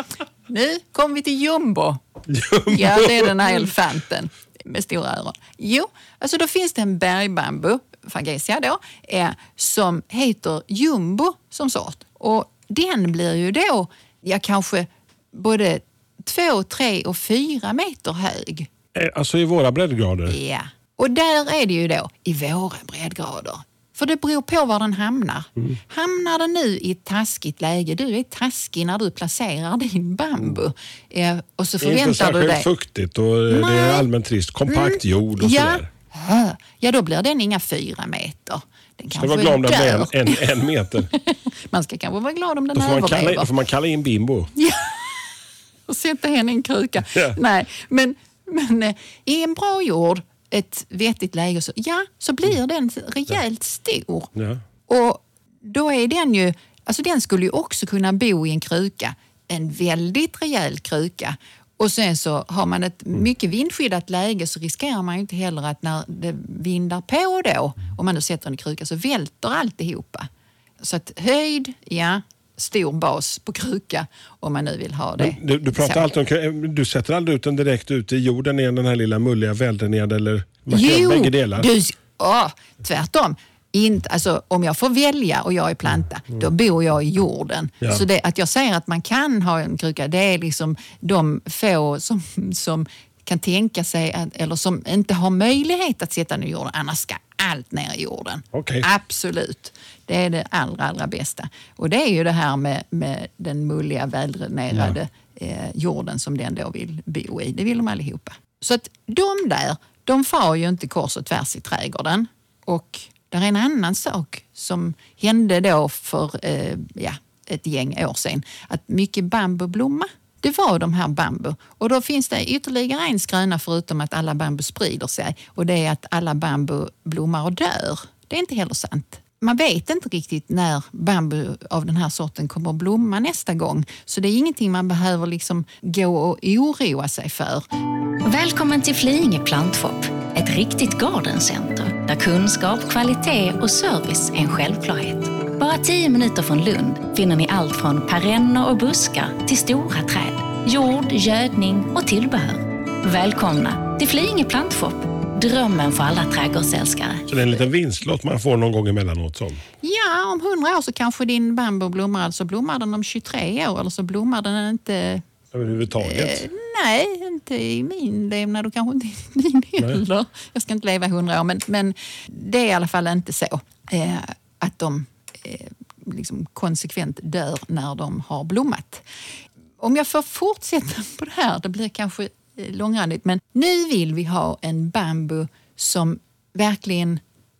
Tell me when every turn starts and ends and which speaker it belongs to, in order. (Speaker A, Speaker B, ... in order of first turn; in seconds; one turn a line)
Speaker A: 0.5-2.0
Speaker B: 2.3-3.6
Speaker A: 2.7-18.7
Speaker B: 18.9-20.4
Speaker A: 20.3-32.7
Speaker B: 31.8-35.9
Speaker A: 33.5-34.1
Speaker A: 34.7-40.4
Speaker B: 39.1-41.1
Speaker A: 41.1-43.5
Speaker B: 42.7-44.5
Speaker A: 44.5-45.3
Speaker A: 45.9-54.3
Speaker B: 47.1-47.4
Speaker B: 54.3-54.6
Speaker A: 54.9-70.3
Speaker A: 70.8-76.0
Speaker B: 75.2-81.7
Speaker A: 80.7-137.6
Speaker B: 98.5-98.8
Speaker C: 138.2-157.2
Speaker B: 157.3-159.6
Speaker A: 159.8-165.2
Speaker B: 165.5-166.5
Speaker A: 166.0-179.0
Speaker A: 179.8-187.2